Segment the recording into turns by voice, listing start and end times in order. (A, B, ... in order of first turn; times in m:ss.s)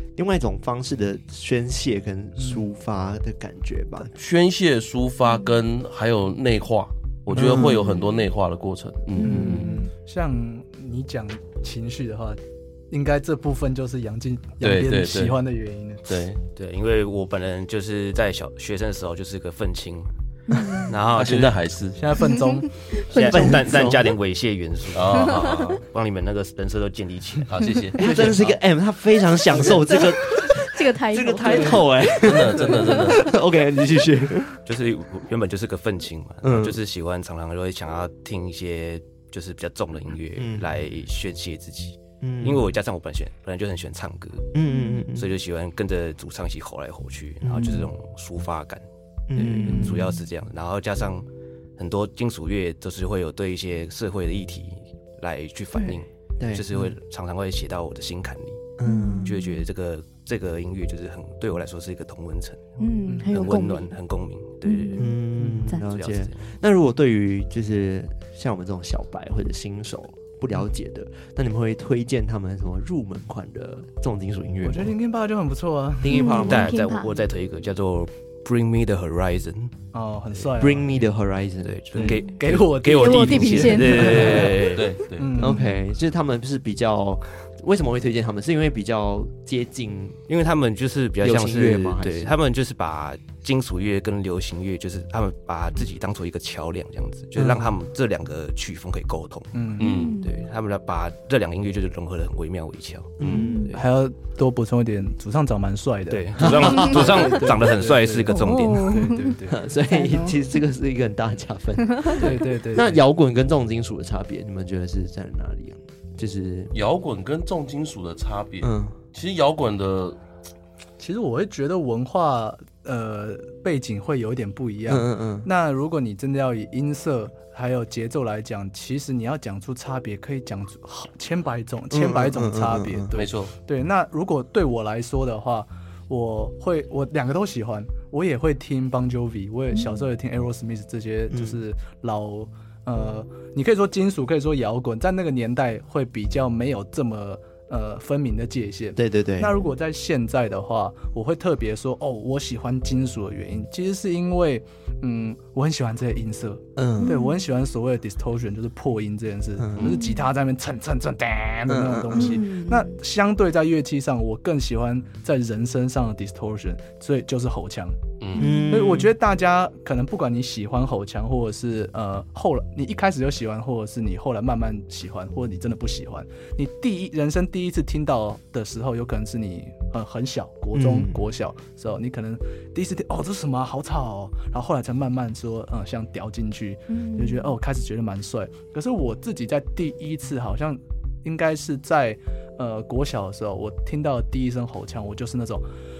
0:00.2-0:04.1 A
0:04.1-0:09.7 B
0:07.3-0:07.9 A
0:07.3-0:07.6 C
0:09.2-0:09.8 D
0:09.2-0:16.0 C
0:14.6-0:15.4 B
0:16.1-0:16.4 B
0:16.5-0:20.1 E
0:20.5-0:20.9 D
0:20.8-0:21.6 E
0:21.1-0:22.0 B
0:22.0-0:22.8 C
0:22.2-0:23.6 D
0:23.1-0:28.6 E
0:23.1-0:24.1 A
0:24.9-0:25.8 B
0:27.5-0:28.0 B
0:28.0-0:34.6 A
0:29.6-0:31.9 D
0:31.5-0:31.7 C
0:32.2-0:33.3 B
0:32.8-0:33.3 D
0:34.6-0:44.5 E
0:36.4-0:36.8 A
0:40.4-0:40.7 A
0:42.2-0:42.7 A
0:44.5-0:45.3 A
0:44.6-0:45.0 D
0:45.1-0:51.2 E
0:47.4-0:47.9 A
0:49.3-0:50.1 A
0:49.6-0:50.1 C
0:51.8-0:58.6 E
0:56.4-0:56.9 A
0:58.8-0:59.5 A
0:58.8-0:59.3 D
0:59.2-1:02.7 E
1:02.8-1:03.9 D
1:03.3-1:05.2 E
1:04.6-1:05.8 D
1:05.0-1:14.9 A
1:05.7-1:06.5 E
1:14.6-1:16.3 C
1:16.0-1:16.8 A
1:16.1-1:17.2 D
1:16.3-1:19.8 E
1:19.9-1:21.0 C
1:20.6-1:22.2 A
1:21.6-1:24.9 E
1:22.0-1:25.7 C
1:22.9-1:24.6 D
1:24.6-1:25.5 B
1:25.4-1:30.2 A
1:30.3-1:43.8 E
1:31.2-1:32.3 A
1:37.4-1:37.7 A
1:39.5-1:39.9 C
1:39.8-1:40.2 B
1:39.8-1:40.4 D
1:43.2-1:43.7 A
1:43.3-1:43.7 D
1:43.7-1:49.6 C
1:46.1-1:49.0 E
1:46.4-1:47.3 A
1:48.3-1:49.4 D
1:49.4-1:56.7 A
1:49.9-1:50.4 D
1:52.1-1:53.0 C
1:56.7-2:00.2 B
1:58.6-1:59.0 A
2:01.0-2:48.0 C
2:04.9-2:05.5 A
2:11.9-2:13.1 A
2:13.1-2:13.5 B
2:19.7-2:20.0 D
2:21.3-2:21.6 A
2:29.0-2:29.6 A
2:36.8-2:37.1 A
2:37.0-2:37.4 D
2:39.6-2:40.0 A
2:39.8-2:40.3 D
2:41.7-2:42.4 A
2:42.1-2:42.9 D
2:48.2-2:48.5 B
2:48.4-2:48.7 D
2:48.4-2:49.1 A
2:48.7-3:15.6 C
3:00.7-3:01.2 A
3:06.9-3:07.5 D